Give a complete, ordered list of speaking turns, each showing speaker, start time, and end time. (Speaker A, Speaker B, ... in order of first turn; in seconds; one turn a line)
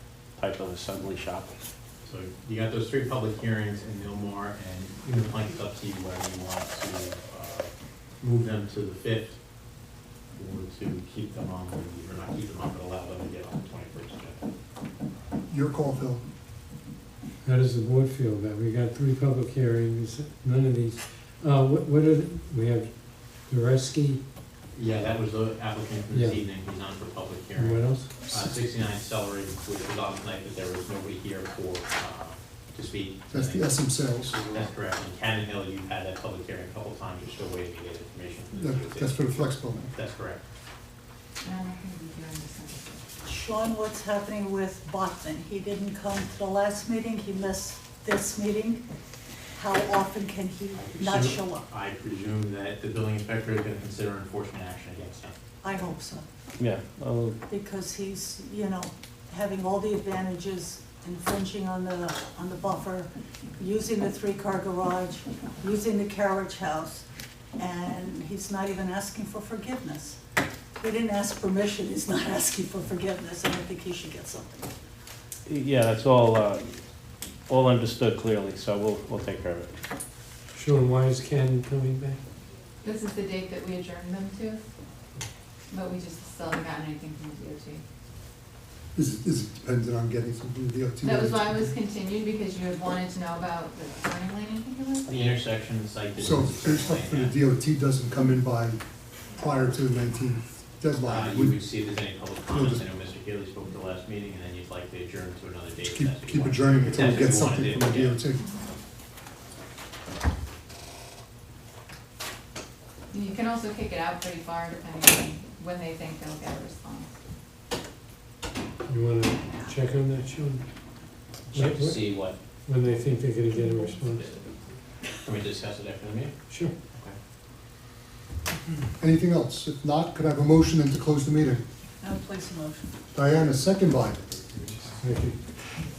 Speaker A: 0.4-1.5
Speaker B: 2.0-9.4
Speaker B: 10.3-14.4
Speaker C: 15.5-16.2
Speaker D: 17.4-24.2
Speaker B: 24.7-39.4
Speaker D: 26.1-26.4
Speaker D: 27.6-28.2
Speaker C: 28.2-28.5
Speaker C: 33.3-34.4
Speaker C: 38.5-39.9
Speaker B: 39.9-40.4
Speaker E: 41.4-43.0
Speaker F: 43.2-48.8
Speaker F: 49.6-51.6
Speaker B: 50.8-55.3
Speaker F: 55.6-56.2
Speaker A: 56.6-57.4
Speaker F: 57.5-67.0
Speaker F: 67.6-70.2
Speaker F: 70.8-74.7
Speaker A: 75.5-76.8
Speaker A: 77.5-79.7
Speaker D: 80.5-82.2
Speaker E: 82.8-84.6
Speaker E: 85.7-87.8
Speaker C: 89.0-91.7
Speaker E: 91.0-95.4
Speaker B: 95.1-97.4
Speaker C: 96.2-98.8
Speaker C: 99.4-101.6
Speaker B: 101.0-108.2
Speaker C: 102.5-102.8
Speaker C: 105.9-108.5
Speaker E: 113.1-117.1
Speaker D: 118.9-120.6
Speaker E: 119.4-119.7
Speaker B: 121.5-122.4
Speaker D: 121.5-124.3
Speaker E: 123.6-124.6
Speaker B: 125.2-126.3
Speaker D: 126.5-126.7
Speaker C: 129.0-131.6
Speaker F: 132.0-132.9
Speaker C: 133.1-134.3
Speaker B: 134.4-135.0
Speaker D: 135.0-135.4